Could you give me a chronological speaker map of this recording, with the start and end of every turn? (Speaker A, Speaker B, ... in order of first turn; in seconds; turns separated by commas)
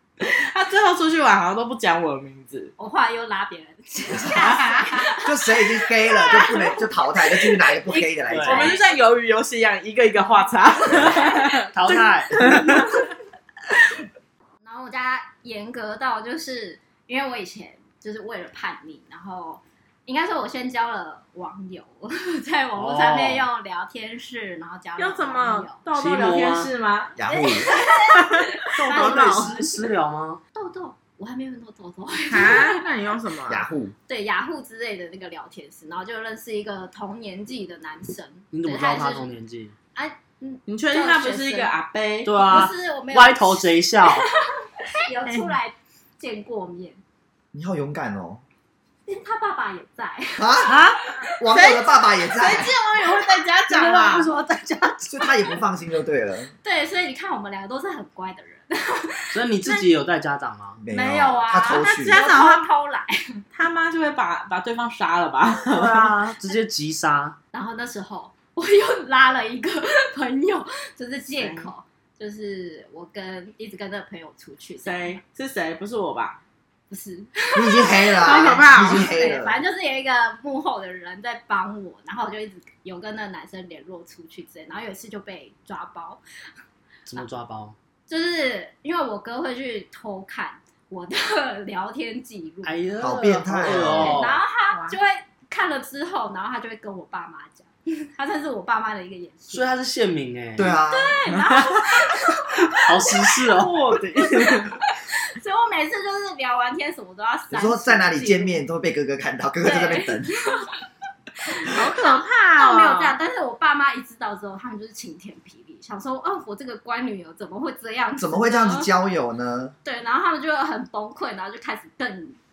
Speaker A: 0.2-2.7, Speaker B: 2.8-5.3, Speaker A: 4.3-5.1, Speaker C: 5.2-8.8, Speaker B: 6.2-6.6, Speaker A: 6.2-6.7, Speaker B: 7.8-8.8, Speaker D: 8.3-8.8, Speaker A: 8.4-13.1, Speaker D: 11.7-12.6, Speaker B: 12.5-12.8, Speaker B: 14.6-25.8, Speaker D: 22.8-23.4, Speaker A: 25.0-29.6, Speaker D: 25.9-26.7, Speaker C: 27.1-27.7, Speaker B: 27.3-29.8, Speaker D: 28.8-30.4, Speaker B: 30.5-32.9, Speaker A: 32.3-33.6, Speaker C: 33.5-33.9, Speaker B: 34.1-39.3, Speaker D: 38.5-39.7, Speaker B: 39.9-41.7, Speaker A: 40.7-42.7, Speaker D: 42.2-44.2, Speaker B: 42.4-47.0, Speaker A: 45.2-45.6, Speaker C: 47.5-48.4, Speaker B: 49.1-51.4, Speaker C: 50.4-50.8, Speaker D: 50.6-51.0, Speaker C: 51.4-52.7, Speaker A: 51.5-54.3, Speaker D: 53.7-55.4, Speaker C: 55.1-56.5, Speaker B: 56.6-59.8, Speaker D: 59.3-60.8, Speaker C: 60.8-62.2, Speaker B: 60.9-63.4, Speaker A: 61.7-62.7, Speaker A: 63.5-66.2, Speaker D: 65.7-67.4, Speaker B: 67.5-75.2, Speaker A: 71.4-71.7, Speaker A: 74.8-76.4, Speaker B: 76.9-86.2, Speaker C: 77.5-79.6, Speaker A: 78.2-79.2, Speaker D: 87.1-87.8, Speaker B: 88.1-92.8, Speaker D: 92.6-94.4, Speaker C: 93.0-94.2, Speaker B: 93.9-99.7, Speaker A: 94.7-95.0, Speaker D: 99.5-100.7, Speaker C: 100.6-101.2, Speaker B: 100.9-102.8, Speaker A: 101.3-101.9, Speaker D: 102.8-103.7, Speaker A: 103.4-104.8, Speaker B: 104.5-108.6, Speaker C: 107.5-110.3, Speaker B: 109.6-110.7, Speaker B: 111.5-118.9, Speaker A: 111.7-113.2, Speaker C: 118.2-119.7, Speaker B: 119.8-122.4